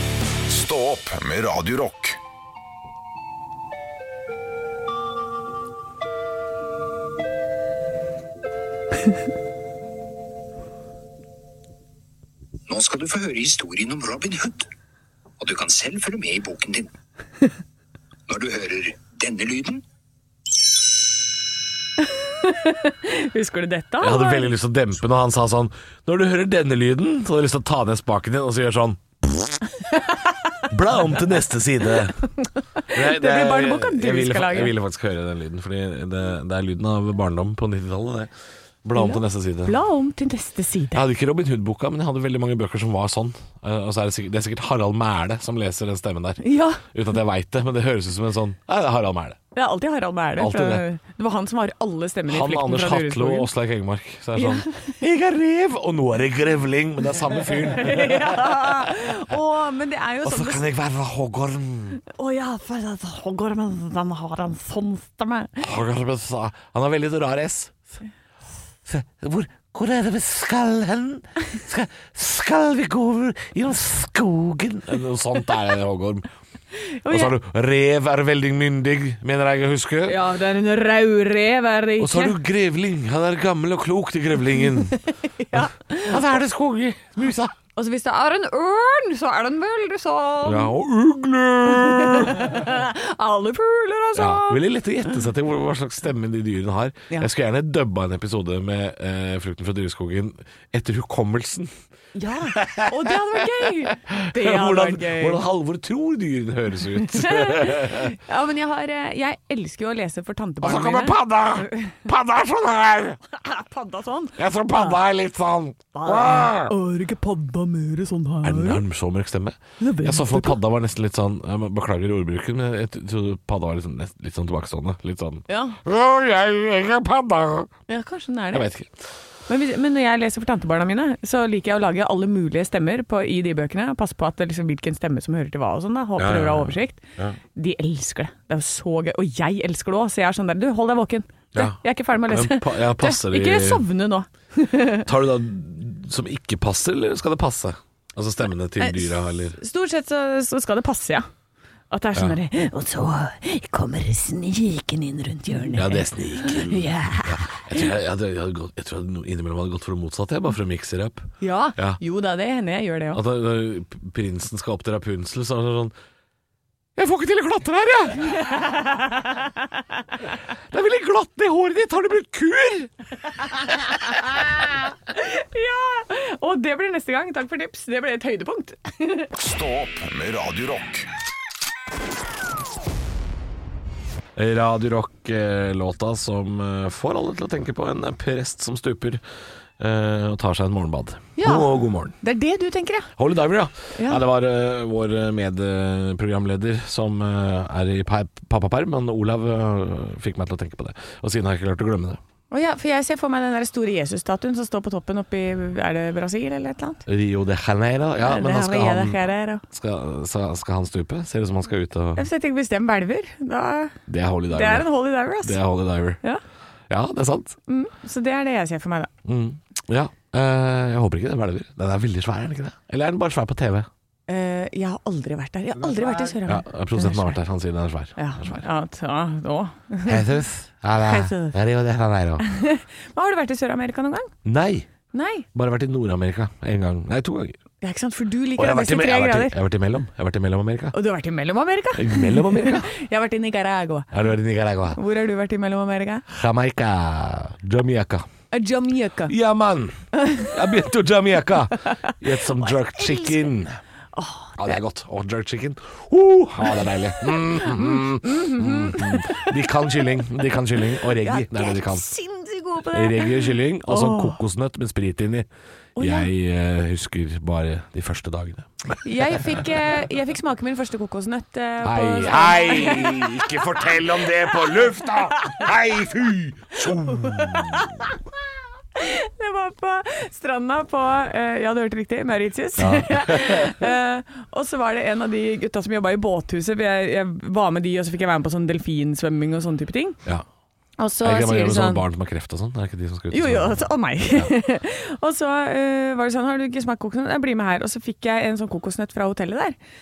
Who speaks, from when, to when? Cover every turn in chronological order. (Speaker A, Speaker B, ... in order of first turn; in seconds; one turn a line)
Speaker A: 0.5-2.2
Speaker B: 12.7-14.7
Speaker B: 15.4-16.9
Speaker B: 18.3-19.8
Speaker C: 22.0-24.5
Speaker D: 24.0-29.6
Speaker D: 30.7-32.2
Speaker C: 32.4-34.7
Speaker D: 32.9-38.3
Speaker D: 38.8-39.8
Speaker C: 39.0-41.0
Speaker D: 40.9-49.4
Speaker C: 46.4-46.8
Speaker C: 49.5-53.5
Speaker D: 50.4-50.8
Speaker D: 52.3-59.0
Speaker C: 54.4-55.0
Speaker C: 57.7-60.6
Speaker D: 60.2-62.0
Speaker C: 62.1-65.6
Speaker D: 65.6-67.8
Speaker D: 68.9-76.3
Speaker C: 76.8-77.3
Speaker D: 77.1-80.2
Speaker C: 80.0-82.3
Speaker D: 82.0-85.0
Speaker C: 84.9-86.2
Speaker D: 86.1-87.5
Speaker C: 87.7-90.7
Speaker D: 90.4-92.5
Speaker C: 91.7-94.6
Speaker D: 94.2-101.7
Speaker C: 102.1-105.4
Speaker D: 102.5-108.2
Speaker C: 107.0-111.9
Speaker D: 110.6-113.2
Speaker C: 113.3-114.9
Speaker D: 114.4-116.7
Speaker C: 115.9-118.8
Speaker D: 118.4-127.7
Speaker C: 119.8-120.6
Speaker C: 125.5-125.8
Speaker C: 127.9-128.7
Speaker D: 128.5-128.9
Speaker C: 129.5-137.0
Speaker D: 136.2-137.4
Speaker C: 137.6-145.1
Speaker D: 141.5-143.8
Speaker D: 145.1-149.6
Speaker C: 148.8-151.3
Speaker C: 151.9-157.8
Speaker D: 155.7-162.0
Speaker C: 161.4-163.2
Speaker D: 163.1-165.9
Speaker D: 167.0-168.5
Speaker C: 168.3-169.6
Speaker D: 170.7-172.9
Speaker C: 173.8-179.3
Speaker A: 179.4-181.1
Speaker D: 184.4-189.2
Speaker D: 189.8-192.2
Speaker C: 191.4-193.1
Speaker D: 193.2-202.2
Speaker C: 193.9-194.2
Speaker C: 202.5-207.0
Speaker D: 207.1-209.2
Speaker C: 208.2-209.6
Speaker D: 209.7-212.3
Speaker C: 212.2-214.0
Speaker D: 214.1-214.9
Speaker C: 214.5-215.6
Speaker D: 215.4-216.2
Speaker D: 216.9-217.6
Speaker C: 217.7-219.1
Speaker D: 219.3-223.9
Speaker C: 224.3-227.4
Speaker D: 225.9-228.6
Speaker C: 228.2-230.2
Speaker D: 230.1-232.4
Speaker C: 231.0-231.6
Speaker C: 232.4-234.3
Speaker D: 234.4-234.9
Speaker C: 235.1-235.5
Speaker D: 235.5-237.6
Speaker C: 237.8-239.5
Speaker D: 238.6-240.9
Speaker C: 240.9-244.1
Speaker D: 241.9-242.9
Speaker D: 244.1-245.0
Speaker C: 245.0-246.2
Speaker D: 246.3-248.2
Speaker C: 248.5-249.3
Speaker D: 249.3-253.8
Speaker C: 250.2-250.5
Speaker C: 251.9-253.5
Speaker C: 254.2-254.8
Speaker D: 254.6-262.1
Speaker C: 257.6-259.4
Speaker C: 261.2-264.4
Speaker D: 262.9-265.5
Speaker C: 266.0-266.3
Speaker D: 266.0-269.7
Speaker C: 269.0-274.0
Speaker D: 271.8-278.0
Speaker C: 274.5-274.8
Speaker C: 277.0-278.1
Speaker C: 278.9-290.2
Speaker D: 282.8-283.9
Speaker C: 291.0-292.0
Speaker D: 291.2-294.5
Speaker C: 293.3-299.8